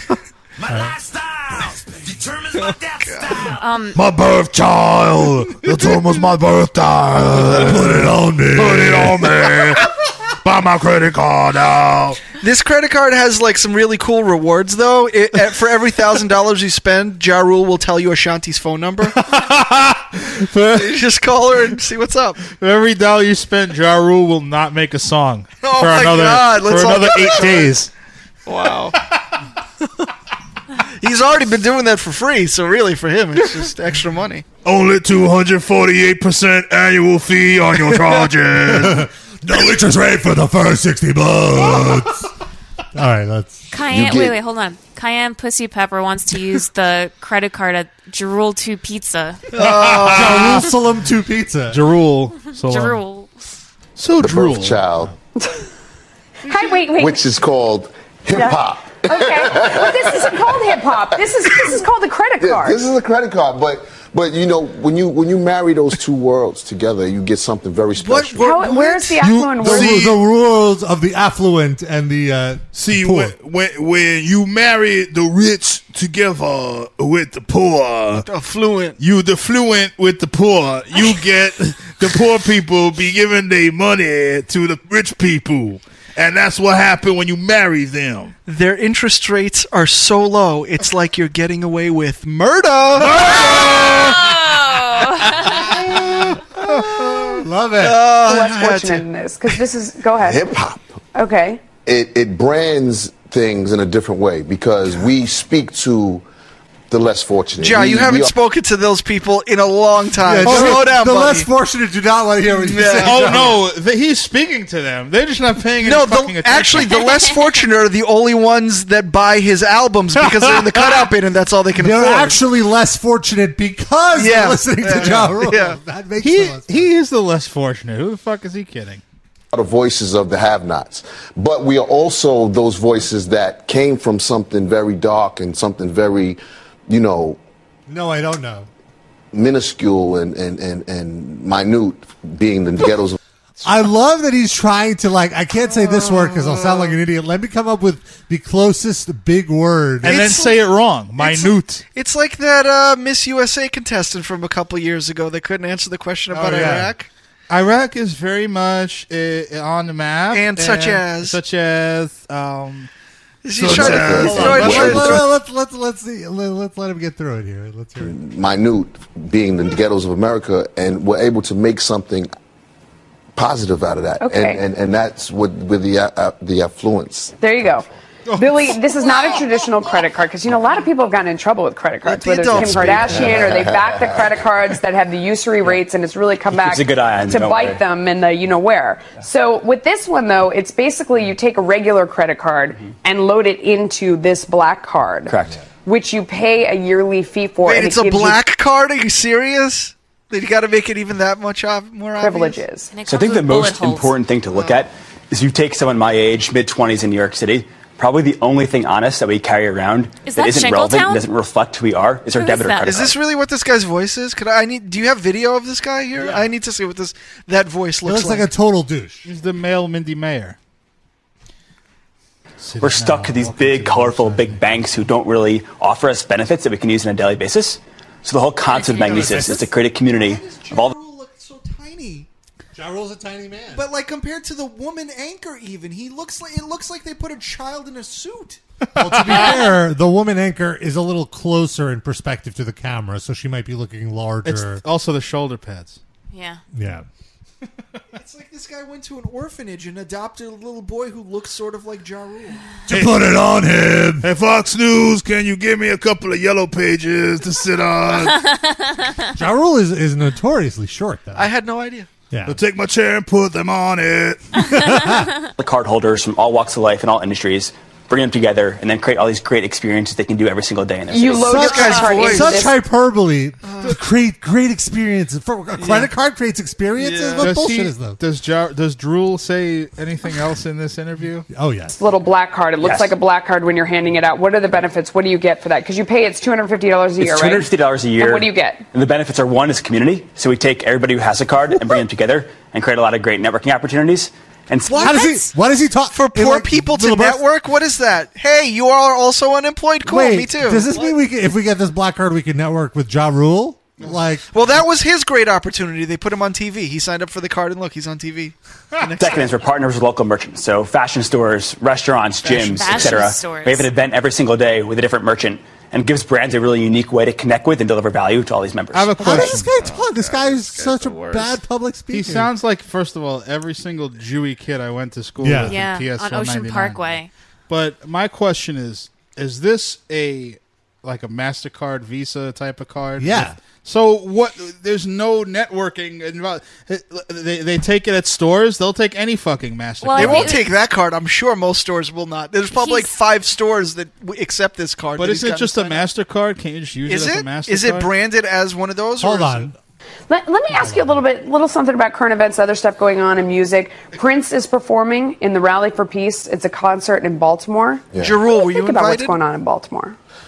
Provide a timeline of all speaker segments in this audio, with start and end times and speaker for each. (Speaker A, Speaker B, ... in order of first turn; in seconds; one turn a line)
Speaker A: 0.6-3.6
Speaker B: 0.7-0.9
Speaker C: 3.5-4.0
Speaker D: 3.9-9.8
Speaker B: 7.5-9.4
Speaker D: 10.4-12.2
Speaker E: 12.4-19.4
Speaker F: 19.3-21.0
Speaker E: 20.7-22.4
Speaker F: 22.5-27.9
Speaker E: 25.6-27.8
Speaker E: 28.5-28.9
Speaker E: 31.0-34.4
Speaker D: 34.6-39.1
Speaker B: 38.6-42.3
Speaker B: 42.9-43.7
Speaker C: 43.7-49.4
Speaker G: 43.8-44.4
Speaker E: 49.5-50.7
Speaker D: 49.7-50.1
Speaker B: 50.1-51.8
Speaker F: 51.7-53.0
Speaker C: 52.5-53.3
Speaker F: 54.0-55.1
Speaker G: 54.2-55.1
Speaker H: 56.5-57.2
Speaker G: 56.9-60.5
Speaker H: 59.0-62.8
Speaker G: 62.4-68.5
Speaker E: 67.9-69.2
Speaker H: 68.4-70.0
Speaker B: 69.2-73.3
Speaker D: 69.7-70.2
Speaker D: 72.7-78.2
Speaker E: 78.2-79.0
Speaker D: 79.0-88.3
Speaker E: 88.5-93.3
Speaker C: 94.0-95.7
Speaker B: 96.6-98.0
Speaker E: 96.6-99.0
Speaker H: 98.2-100.5
Speaker G: 100.2-101.0
Speaker H: 101.1-101.7
Speaker G: 101.8-106.2
Speaker G: 106.9-108.3
Speaker E: 107.6-111.5
Speaker B: 110.2-113.5
Speaker F: 110.5-110.8
Speaker E: 112.5-113.5
Speaker F: 112.9-117.3
Speaker E: 115.8-122.4
Speaker F: 120.4-121.0
Speaker B: 121.8-126.9
Speaker E: 124.2-125.8
Speaker F: 124.9-125.3
Speaker F: 126.2-129.0
Speaker G: 129.5-137.4
Speaker B: 137.9-138.7
Speaker G: 139.3-143.2
Speaker B: 143.6-150.2
Speaker F: 150.0-151.8
Speaker E: 150.0-150.6
Speaker E: 151.2-157.1
Speaker B: 156.3-156.9
Speaker F: 157.5-162.9
Speaker E: 160.3-161.4
Speaker E: 163.4-165.2
Speaker G: 163.6-165.1
Speaker F: 163.7-164.9
Speaker B: 164.1-168.2
Speaker G: 168.0-172.3
Speaker G: 173.3-177.4
Speaker H: 174.2-174.6
Speaker H: 177.4-198.4
Speaker F: 178.3-179.5
Speaker E: 182.0-183.5
Speaker G: 182.5-184.5
Speaker I: 186.5-187.8
Speaker I: 195.2-195.6
Speaker E: 197.6-202.6
Speaker H: 202.2-202.9
Speaker C: 202.9-204.1
Speaker I: 203.0-213.2
Speaker C: 210.2-211.2
Speaker C: 212.2-212.9
Speaker E: 212.8-218.5
Speaker F: 216.2-216.5
Speaker B: 218.0-219.3
Speaker F: 219.2-220.6
Speaker F: 222.6-224.9
Speaker I: 222.8-230.9
Speaker B: 228.7-229.7
Speaker E: 228.8-232.3
Speaker B: 232.7-233.9
Speaker E: 233.7-238.6
Speaker B: 238.9-244.8
Speaker F: 239.1-239.4
Speaker F: 244.4-246.0
Speaker C: 246.3-246.6
Speaker B: 246.7-247.1
Speaker E: 248.1-252.7
Speaker B: 252.9-254.3
Speaker D: 252.9-253.2
Speaker D: 254.2-258.4
Speaker C: 258.5-259.1
Speaker B: 259.4-261.5
Speaker E: 261.3-262.1
Speaker B: 262.3-262.6
Speaker D: 262.5-264.4
Speaker B: 264.6-265.3
Speaker I: 265.6-271.7
Speaker H: 271.1-272.7
Speaker E: 271.3-272.6
Speaker B: 271.5-278.2
Speaker E: 273.6-274.0
Speaker E: 275.8-276.1
Speaker E: 277.0-277.5
Speaker F: 277.4-281.5
Speaker B: 281.5-282.0
Speaker H: 282.0-287.7
Speaker I: 282.8-283.1
Speaker I: 287.2-295.3
Speaker H: 288.2-288.8
Speaker B: 294.9-297.4
Speaker E: 295.0-295.3
Speaker E: 296.1-301.1
Speaker B: 300.0-304.5
Speaker E: 304.5-309.5
Speaker I: 309.2-319.2
Speaker F: 312.5-313.0
Speaker C: 312.6-313.9
Speaker F: 318.9-319.8
Speaker B: 319.2-322.5
Speaker A: 320.0-321.4
Speaker F: 322.1-340.6
Speaker B: 325.4-325.8
Speaker C: 325.6-327.3
Speaker B: 333.2-333.6
Speaker C: 340.0-340.7
Speaker E: 340.1-346.0
Speaker C: 342.8-343.1
Speaker F: 345.2-348.1
Speaker E: 347.1-349.7
Speaker B: 349.2-349.8
Speaker H: 350.3-360.1
Speaker B: 350.7-351.3
Speaker E: 358.2-359.4